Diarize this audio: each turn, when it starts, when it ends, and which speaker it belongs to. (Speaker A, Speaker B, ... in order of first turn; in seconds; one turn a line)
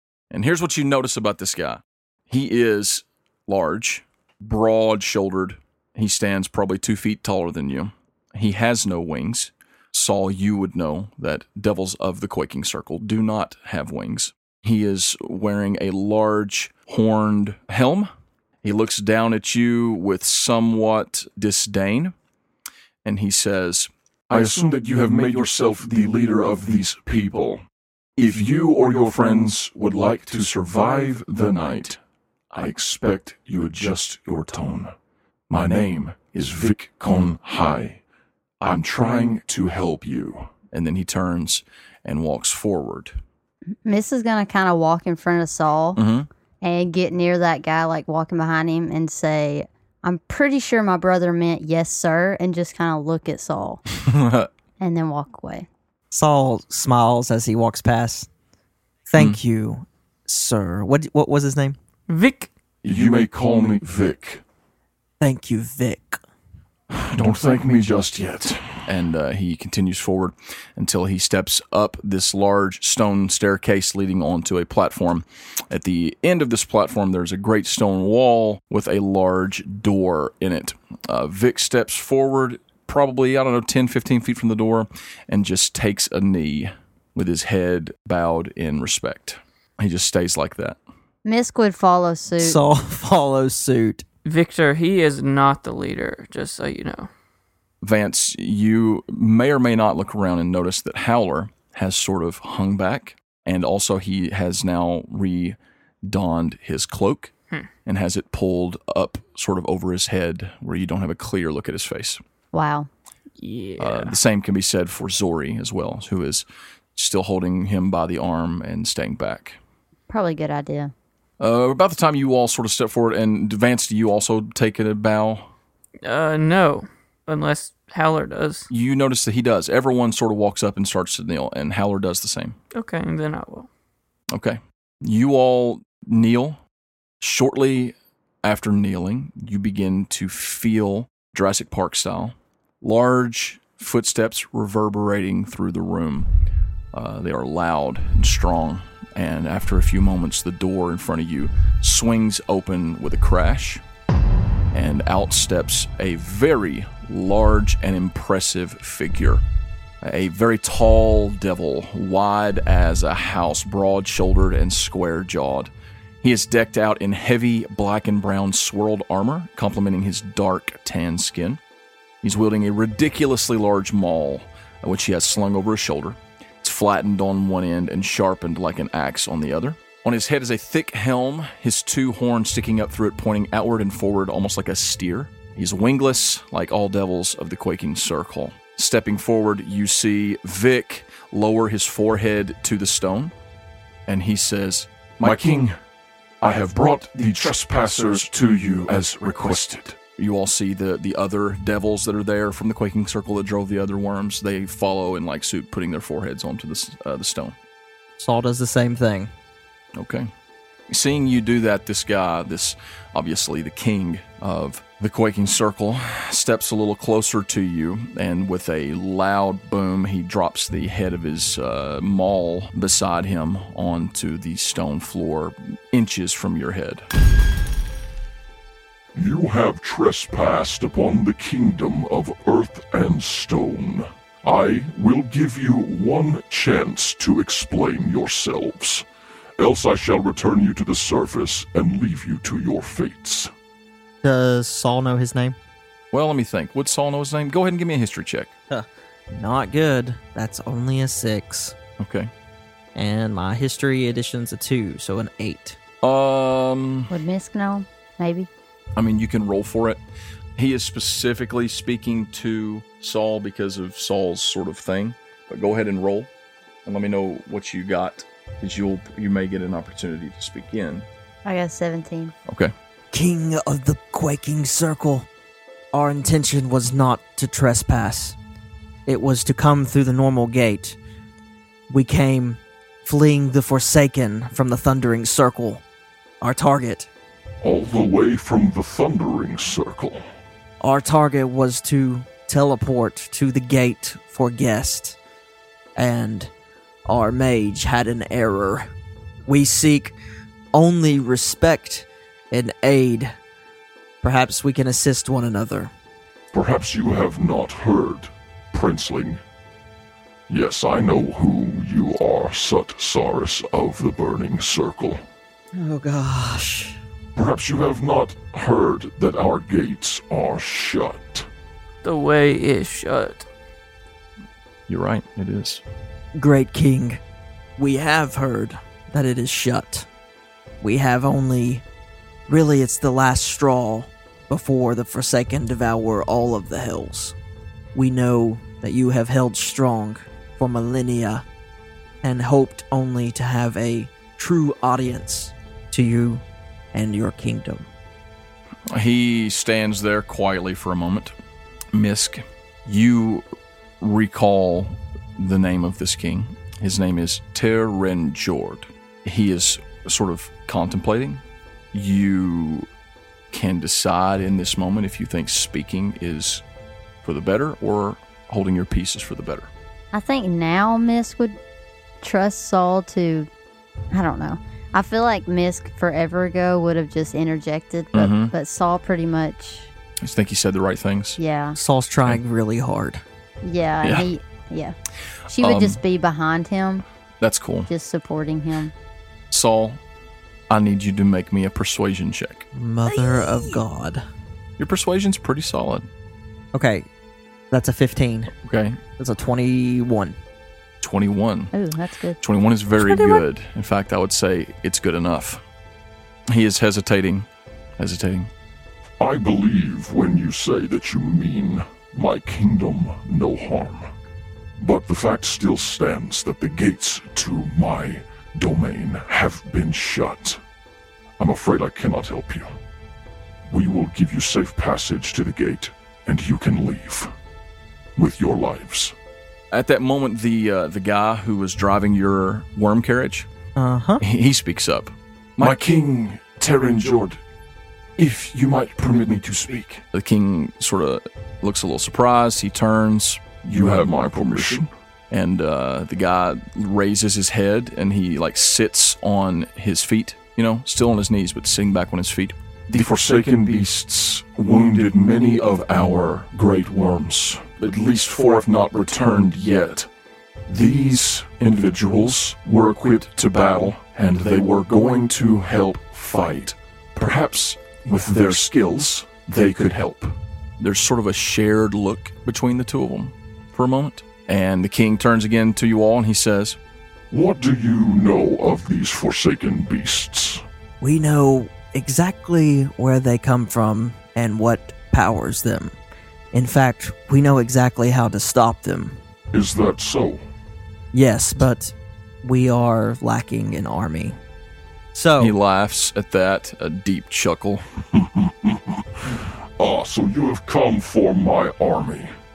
Speaker A: 0.3-18.1
Speaker A: 18.6-22.1
Speaker A: 23.0-23.9
Speaker B: 24.3-27.6
Speaker B: 28.2-32.0
Speaker B: 32.5-34.9
Speaker B: 35.5-38.0
Speaker B: 38.6-40.5
Speaker A: 40.7-43.1
Speaker C: 43.8-46.0
Speaker A: 46.0-46.3
Speaker C: 46.6-53.8
Speaker A: 54.0-54.5
Speaker C: 54.8-55.7
Speaker D: 56.1-58.3
Speaker D: 59.1-61.8
Speaker E: 62.1-62.5
Speaker B: 62.8-64.4
Speaker D: 65.2-66.2
Speaker B: 66.9-68.8
Speaker A: 68.8-90.8
Speaker C: 91.2-92.6
Speaker D: 92.4-94.0
Speaker E: 94.2-97.1
Speaker A: 97.8-107.3
Speaker A: 107.8-112.2
Speaker C: 112.5-112.9
Speaker E: 113.4-114.1
Speaker A: 113.8-119.6
Speaker C: 120.1-120.9
Speaker A: 121.4-125.5
Speaker E: 126.0-128.7
Speaker A: 128.7-132.6
Speaker E: 132.7-133.7
Speaker A: 134.3-136.6
Speaker A: 137.2-146.3
Speaker A: 146.9-153.8
Speaker A: 154.7-159.4
Speaker A: 160.0-165.7
Speaker A: 166.2-171.6
Speaker A: 172.2-193.3
Speaker A: 194.1-195.4
Speaker B: 195.2-195.8
Speaker B: 196.4-200.0
Speaker A: 200.1-207.5
Speaker D: 208.2-209.3
Speaker A: 209.9-210.3
Speaker A: 210.9-227.1
Speaker B: 229.1-239.1
Speaker B: 239.6-243.5
Speaker D: 244.2-245.6
Speaker A: 246.1-248.5
Speaker D: 248.7-251.8
Speaker A: 252.0-252.3
Speaker D: 252.9-255.8
Speaker A: 256.0-257.1
Speaker C: 257.1-258.5
Speaker A: 258.9-260.0
Speaker A: 260.6-266.3
Speaker A: 266.8-271.1
Speaker C: 271.4-272.3
Speaker D: 273.1-275.3
Speaker D: 275.9-278.4
Speaker D: 279.1-281.0
Speaker D: 281.9-285.8
Speaker D: 286.4-287.1
Speaker B: 287.6-290.2
Speaker D: 290.8-295.2
Speaker D: 295.9-296.5
Speaker D: 297.1-298.9
Speaker D: 299.4-300.2
Speaker D: 300.7-303.3
Speaker D: 304.2-305.9
Speaker B: 306.5-309.4
Speaker B: 310.5-315.2
Speaker D: 315.7-317.0
Speaker B: 317.3-321.5
Speaker E: 322.0-323.5
Speaker A: 324.9-325.8
Speaker D: 326.3-327.2
Speaker D: 327.8-330.1
Speaker D: 330.8-331.8
Speaker D: 332.5-337.4
Speaker D: 337.9-341.4
Speaker D: 342.2-347.9
Speaker A: 348.9-351.3
Speaker A: 351.9-353.4
Speaker A: 354.0-361.4
Speaker A: 361.9-362.9
Speaker A: 363.5-366.6
Speaker A: 367.2-369.7
Speaker C: 370.1-371.6
Speaker C: 372.2-373.5
Speaker C: 374.1-379.9
Speaker A: 378.1-378.5
Speaker A: 380.2-381.4
Speaker C: 381.4-381.8
Speaker D: 381.8-383.2
Speaker C: 383.6-384.9
Speaker C: 385.5-387.0
Speaker A: 385.6-386.0
Speaker A: 387.4-387.9
Speaker C: 387.9-388.9
Speaker A: 389.5-390.0
Speaker A: 390.7-392.6
Speaker D: 392.7-394.2
Speaker A: 394.8-396.1
Speaker D: 396.7-397.1
Speaker D: 397.7-398.5
Speaker A: 398.6-399.0
Speaker D: 399.2-400.4
Speaker A: 401.0-401.7
Speaker C: 401.7-402.4
Speaker A: 402.4-405.6
Speaker E: 402.9-403.4
Speaker A: 406.5-407.5
Speaker A: 408.0-408.5
Speaker B: 409.2-414.1
Speaker B: 414.8-420.6
Speaker B: 421.4-422.7
Speaker B: 423.7-427.3
Speaker B: 428.1-429.1
Speaker A: 429.7-433.5
Speaker D: 433.8-434.2
Speaker A: 434.2-435.8
Speaker B: 435.6-437.4
Speaker B: 438.2-440.0
Speaker A: 440.1-443.6
Speaker B: 443.6-444.9
Speaker A: 445.3-452.6
Speaker B: 452.9-460.1
Speaker B: 460.7-470.4
Speaker A: 470.8-476.8
Speaker B: 477.3-480.6
Speaker D: 481.0-485.9
Speaker D: 486.5-489.2
Speaker B: 489.5-490.4
Speaker D: 491.1-494.4
Speaker D: 495.1-495.5
Speaker A: 495.4-497.8
Speaker B: 498.2-502.3